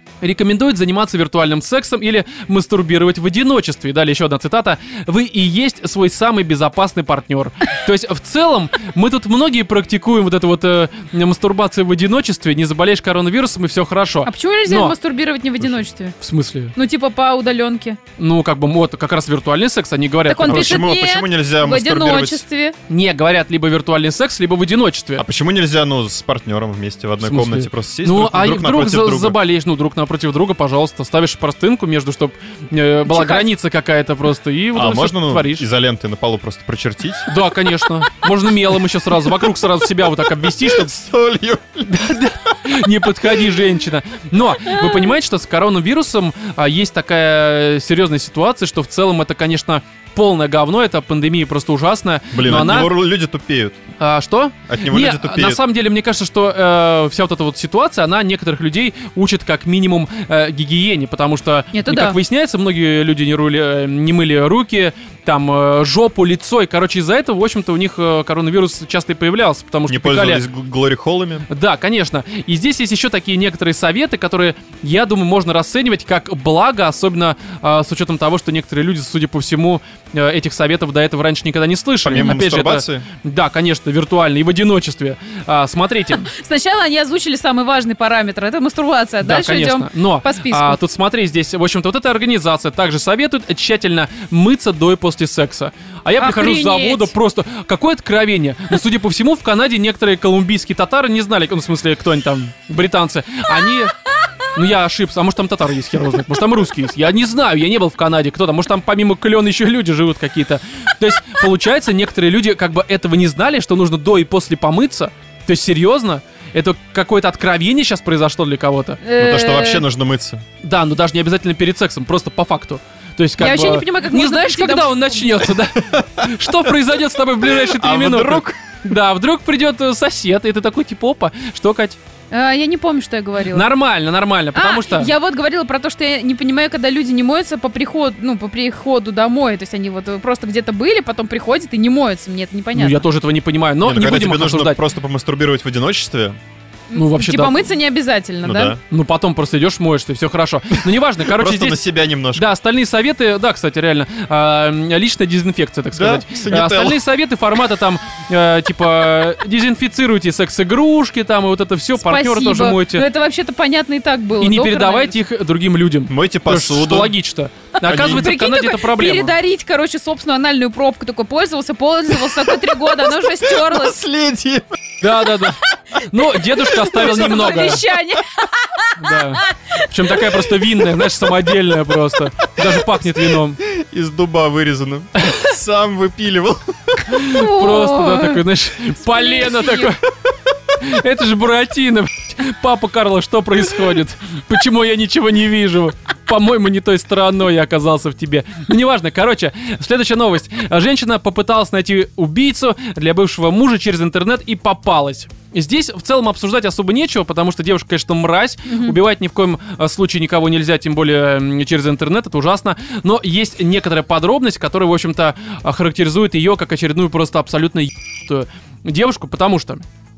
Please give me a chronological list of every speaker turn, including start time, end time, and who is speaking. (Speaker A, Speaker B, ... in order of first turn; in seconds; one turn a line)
Speaker A: 0.2-14.9
Speaker B: 14.3-16.2
Speaker A: 16.2-16.8
Speaker B: 16.8-18.0
Speaker A: 18.2-20.9
Speaker B: 20.3-22.8
Speaker C: 20.4-22.4
Speaker A: 22.9-25.2
Speaker C: 25.2-29.4
Speaker A: 27.2-35.7
Speaker B: 33.1-33.5
Speaker C: 34.7-37.3
Speaker A: 37.3-41.0
Speaker C: 40.4-42.0
Speaker A: 41.8-53.0
Speaker C: 52.3-53.8
Speaker A: 54.0-70.4
Speaker C: 54.7-55.6
Speaker B: 61.7-62.2
Speaker C: 69.9-71.5
Speaker A: 71.5-86.3
Speaker C: 82.0-83.1
Speaker B: 86.2-90.8
Speaker A: 89.2-104.0
Speaker B: 96.2-97.1
Speaker A: 104.5-119.0
Speaker B: 119.0-119.8
Speaker C: 119.2-120.4
Speaker A: 120.6-132.0
Speaker B: 123.4-125.3
Speaker C: 125.8-126.3
Speaker C: 127.4-128.6
Speaker B: 132.3-133.7
Speaker A: 133.5-135.1
Speaker B: 134.6-143.0
Speaker A: 142.7-144.8
Speaker C: 143.8-146.4
Speaker B: 146.9-148.8
Speaker A: 146.9-147.7
Speaker C: 148.4-148.8
Speaker A: 148.9-151.8
Speaker C: 151.2-152.5
Speaker A: 152.3-163.1
Speaker C: 155.9-157.0
Speaker B: 162.0-165.2
Speaker A: 164.4-169.3
Speaker C: 166.1-167.2
Speaker B: 167.8-174.0
Speaker C: 167.8-168.4
Speaker C: 173.2-174.8
Speaker A: 175.0-177.8
Speaker B: 176.4-180.4
Speaker A: 179.0-183.6
Speaker C: 183.6-187.3
Speaker A: 187.1-190.0
Speaker B: 187.3-188.4
Speaker B: 189.0-189.9
Speaker A: 190.8-219.8
Speaker B: 208.7-209.0